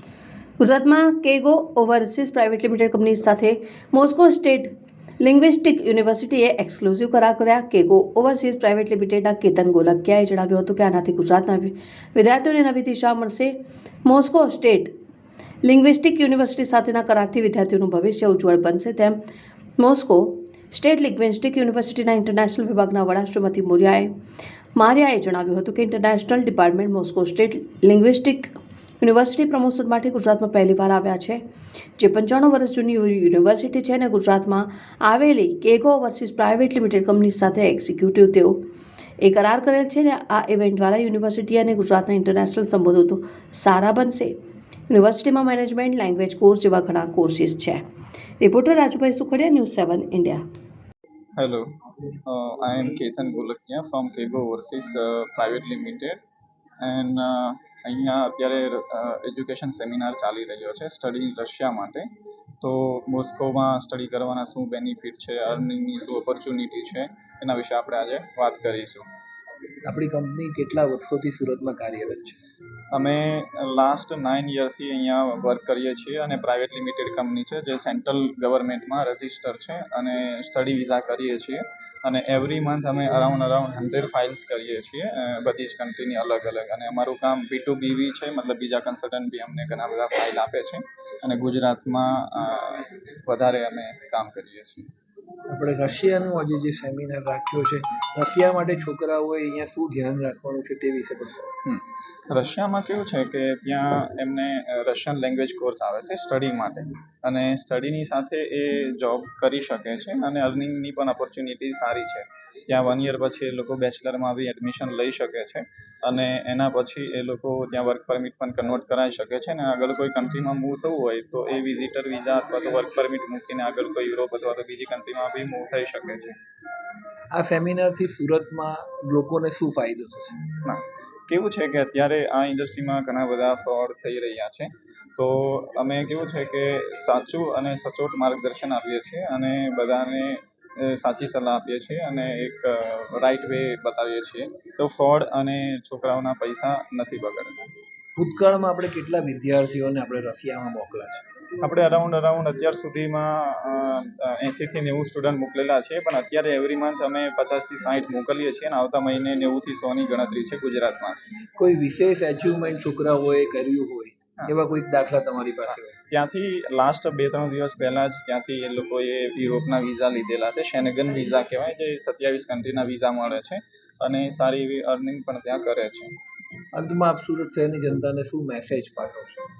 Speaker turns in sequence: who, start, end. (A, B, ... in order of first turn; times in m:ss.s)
0:00.6-0:14.9 A
0:15.6-0:19.2 A
0:19.8-0:24.1 A
0:24.7-0:31.4 A
0:32.0-0:38.6 A
0:39.2-0:44.3 A
0:44.9-0:47.8 A
0:48.4-0:50.4 A
0:51.4-0:51.7 B
0:52.2-0:56.2 B
0:56.8-1:02.1 B
1:02.6-1:09.1 B
1:09.8-1:12.4 C
1:12.9-1:34.9 B
1:35.5-1:41.5 C
1:41.6-2:06.4 B
2:07.3-2:10.5 C
2:10.6-2:27.7 B
2:28.2-2:31.2 C
2:31.6-2:41.3 B
2:41.6-2:45.9 C
2:46.1-2:56.1 B
2:56.7-2:59.5 C